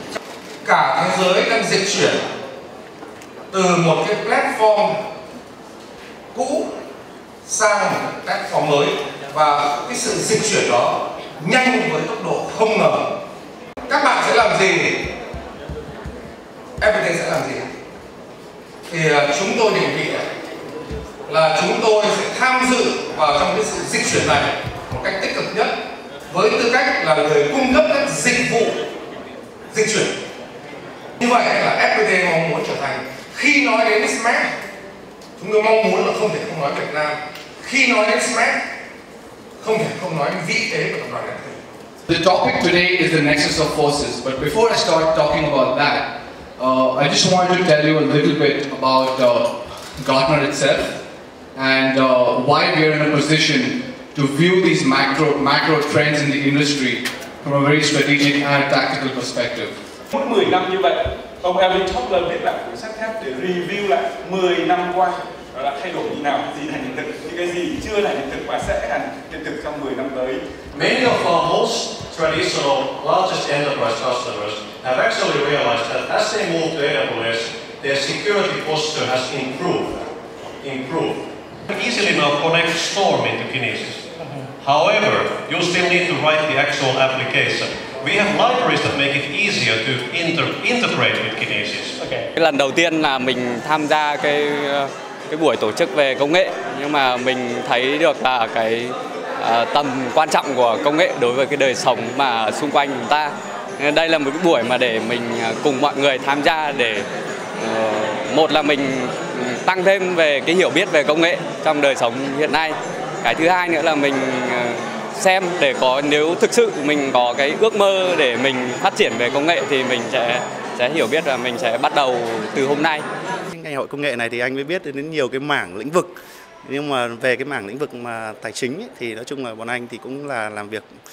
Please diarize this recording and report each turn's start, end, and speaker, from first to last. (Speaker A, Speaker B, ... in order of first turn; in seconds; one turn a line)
Speaker A: 0.6-2.2
Speaker A: 3.5-5.0
Speaker A: 6.3-6.7
Speaker A: 7.5-13.0
Speaker A: 13.9-15.0
Speaker A: 16.8-17.7
Speaker A: 18.9-20.2
Speaker A: 21.3-25.7
Speaker A: 26.3-28.8
Speaker A: 29.7-30.1
Speaker A: 31.2-34.5
Speaker A: 35.4-38.6
Speaker A: 39.6-41.6
Speaker B: 42.1-51.0
Speaker B: 51.5-59.7
Speaker C: 60.1-70.4
Speaker D: 70.8-80.0
Speaker D: 80.6-84.1
Speaker D: 84.6-92.0
Speaker E: 92.3-107.1
Speaker E: 107.6-123.0
Speaker F: 123.5-126.1
Speaker F: 126.7-130.8